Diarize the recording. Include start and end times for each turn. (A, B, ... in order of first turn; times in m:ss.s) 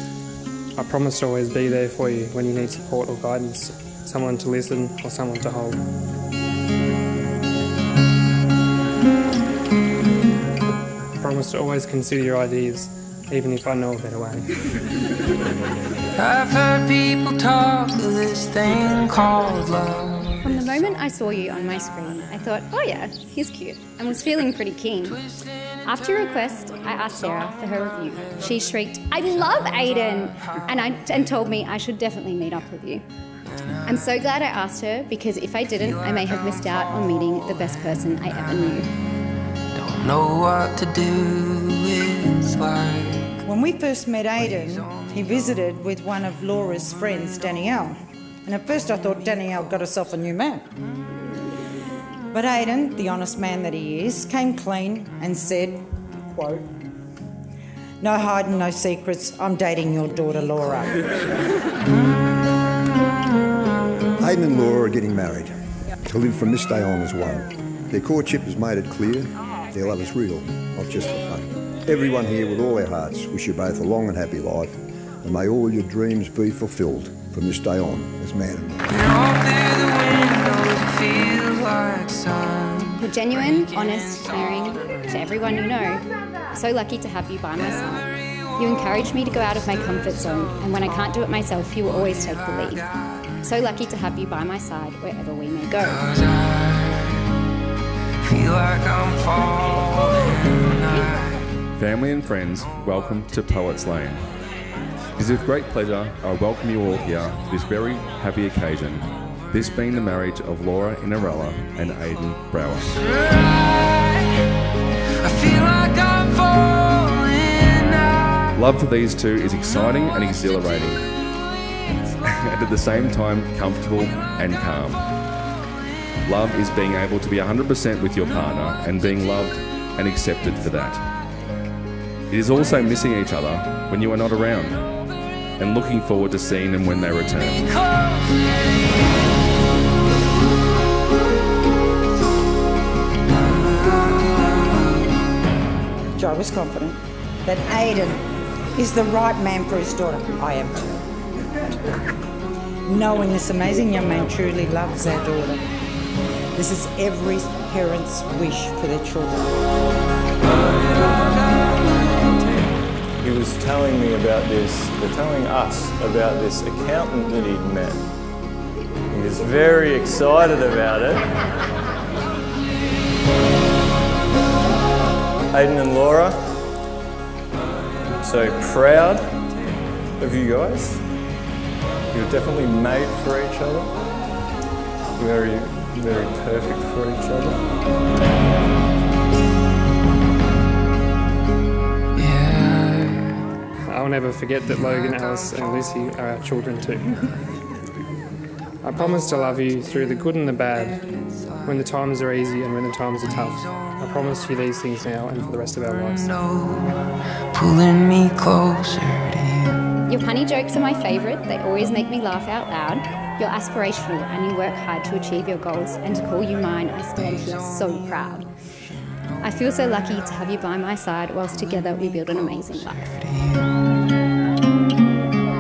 0:00.8-0:05.8 A
0:11.2-0:14.6 A
0:16.2-0:20.3 B
0:20.4-0:25.2 C
0:25.8-0:33.0 C
0:33.8-0:38.9 C
0:39.9-0:41.8 B
0:43.4-0:50.6 D
0:52.3-0:56.7 D
0:58.0-1:01.3 D
1:04.2-1:05.5 E
1:06.0-1:19.0 E
1:19.4-1:21.7 B
1:22.9-1:36.1 C
1:38.3-1:39.8 B
1:41.8-1:44.2 F
1:45.2-1:53.1 F
1:55.5-1:56.3 B
1:58.5-2:01.1 F
2:02.2-2:05.1 F
2:06.2-2:11.1 F
2:12.3-2:15.0 F
2:15.6-2:17.7 F
2:26.2-2:28.2 D
2:28.7-2:31.0 D
2:32.8-2:35.6 D
2:36.5-2:39.6 D
2:43.2-2:48.0 G
2:49.1-2:51.3 G
2:55.5-2:56.5 G
2:58.2-2:59.4 G
3:00.2-3:01.0 G
3:02.1-3:03.9 G
3:05.1-3:07.6 G
3:13.8-3:17.3 A
3:18.8-3:21.1 A
3:21.6-3:26.5 A
3:27.5-3:29.3 B
3:30.1-3:38.5 C
3:39.4-3:43.1 C